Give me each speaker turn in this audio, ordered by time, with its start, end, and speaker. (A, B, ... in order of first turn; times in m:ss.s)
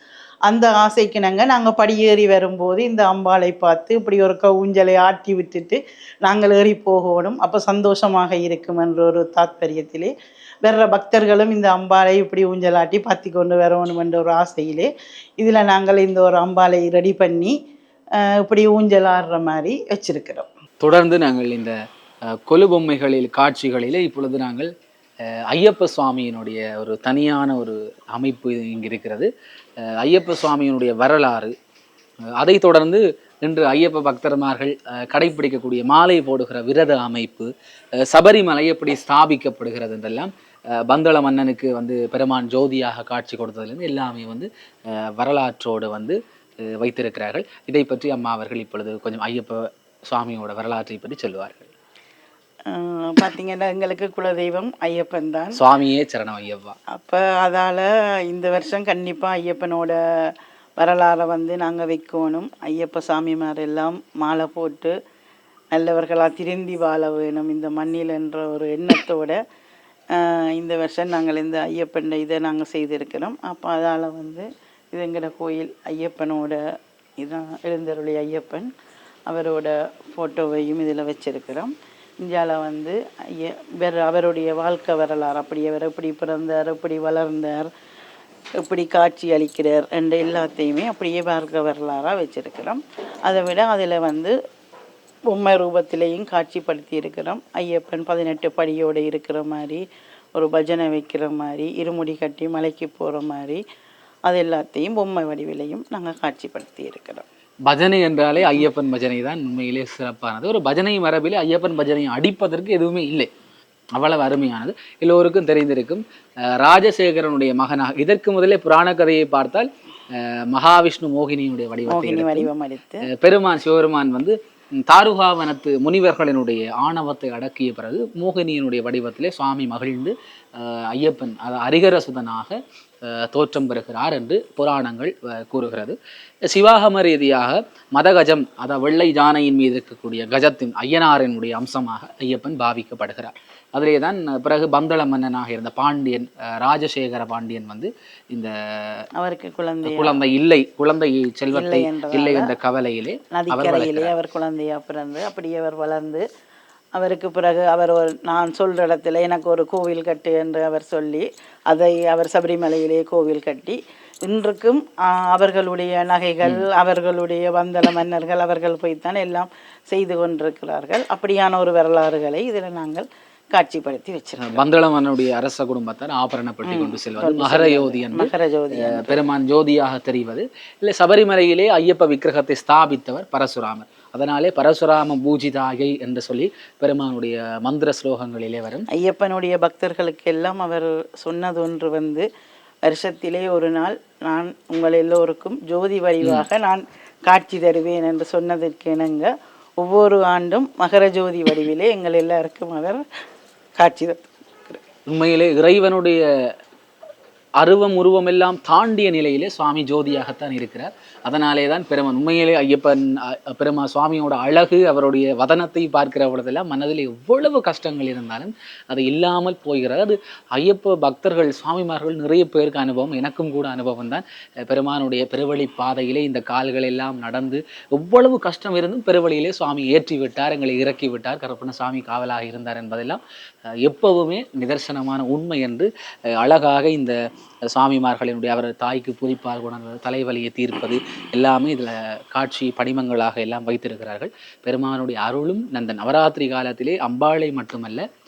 0:00.5-0:10.1 A
0:10.6-0:14.9 A
0:15.4-0:17.5 A
0:18.2-0:20.5 A
0:20.8-0:21.8 B
0:22.3-0:24.7 B
0:25.5-0:29.3 B
0:29.8-0:31.5 B
0:32.4-0:37.5 B
0:38.0-0:51.7 B
0:52.7-0:55.6 A
0:55.5-0:56.8 B
0:56.9-1:00.0 A
1:00.8-1:04.9 A
1:05.7-1:09.4 A
1:10.1-1:16.6 A
1:17.2-1:18.7 A
1:19.3-1:27.7 A
1:28.6-1:34.3 A
1:35.3-1:39.8 A
1:40.4-1:43.6 A
1:44.3-1:47.2 A
1:47.6-1:53.3 B
1:53.9-1:56.0 B
1:56.6-2:02.5 B
2:01.9-2:03.0 A
2:03.2-2:16.0 B
2:16.5-2:29.0 B
2:29.2-2:30.2 A
2:29.8-2:34.1 B
2:31.5-2:32.5 A
2:33.3-2:36.2 A
2:37.0-2:54.6 A
2:54.4-2:58.3 B
2:56.6-2:59.2 A
2:58.9-3:08.8 B
3:08.9-3:12.2 A
3:12.8-3:19.3 A
3:19.8-3:23.0 A
3:23.8-3:24.8 A
3:25.0-3:26.2 B
3:27.6-3:53.2 B
3:53.8-3:57.2 B
3:57.7-4:08.0 B